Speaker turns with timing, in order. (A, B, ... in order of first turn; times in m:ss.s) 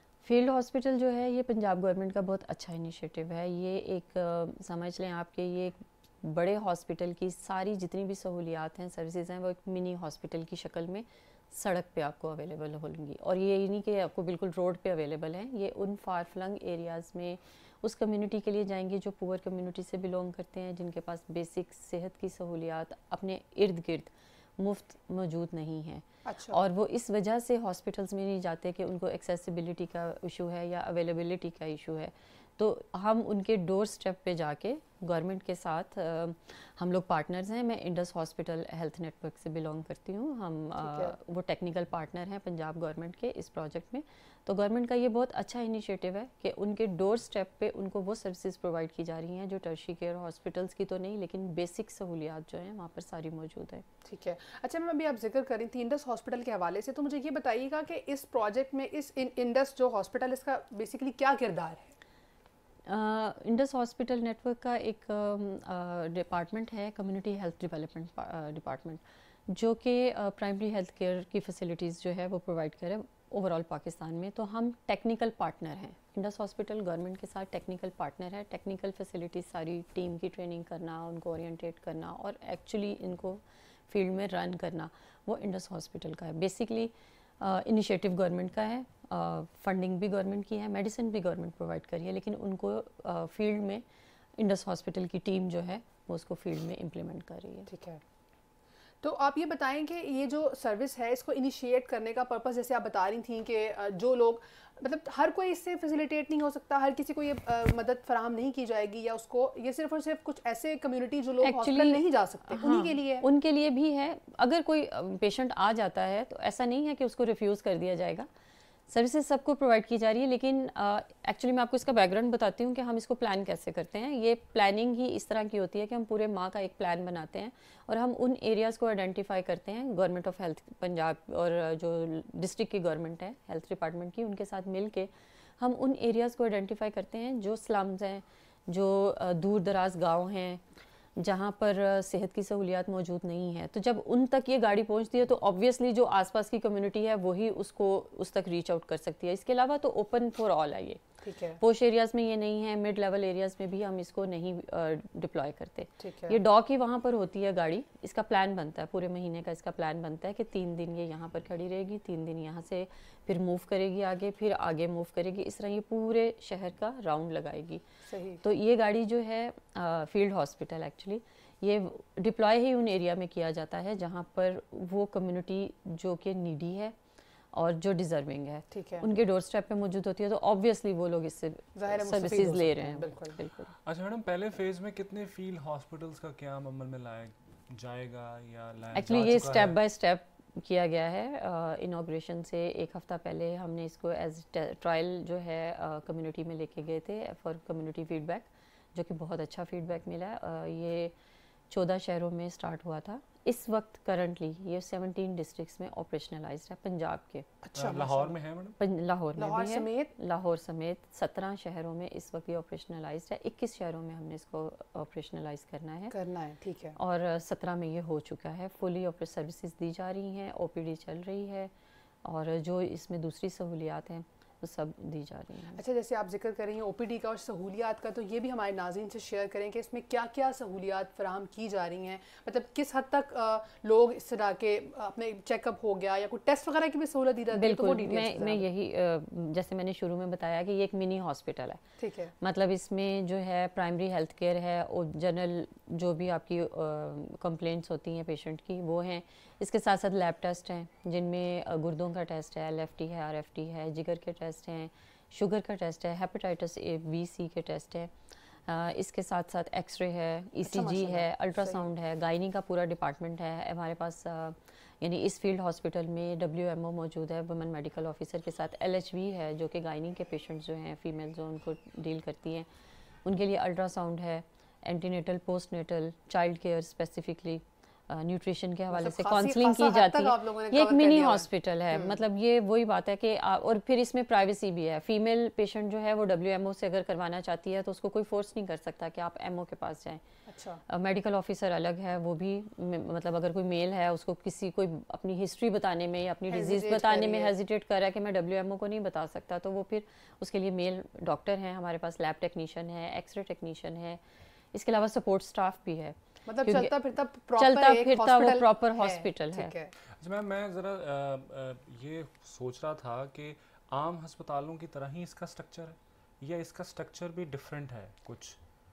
0:00.2-0:53.8 A
0:26.3-0:26.6 B
0:40.8-0:41.1 B
0:54.0-1:01.9 B
1:02.9-1:33.8 A
1:34.4-1:37.7 A
1:37.7-1:38.0 B
1:39.0-1:53.2 B
1:51.4-1:58.3 A
1:58.9-2:20.6 A
2:21.2-2:31.0 A
2:31.2-2:31.6 B
2:31.6-2:47.8 A
2:36.0-2:36.4 B
2:48.1-2:48.4 B
2:48.4-2:57.0 A
2:57.5-3:03.7 A
2:58.7-2:59.1 B
3:01.8-3:03.4 B
3:03.9-3:09.8 C
3:08.9-3:21.1 A
3:21.7-3:27.5 A
3:27.6-3:28.4 B
3:27.8-3:28.8 C
3:28.8-3:36.1 A
3:29.4-3:30.1 B
3:36.1-3:37.0 B
3:37.0-3:41.7 A
3:42.2-3:45.8 A
3:45.8-3:58.6 B
3:57.5-4:01.8 A
4:02.0-4:02.3 B
4:02.4-4:18.1 A
4:18.7-4:32.7 A
4:20.6-4:21.8 B
4:33.2-4:50.2 A
4:38.9-4:42.2 B
4:50.5-4:50.8 B
4:50.9-5:04.2 A
4:56.5-4:57.5 B
5:04.7-5:06.9 A
5:06.5-5:09.9 B
5:07.6-5:09.7 A
5:10.2-5:18.6 C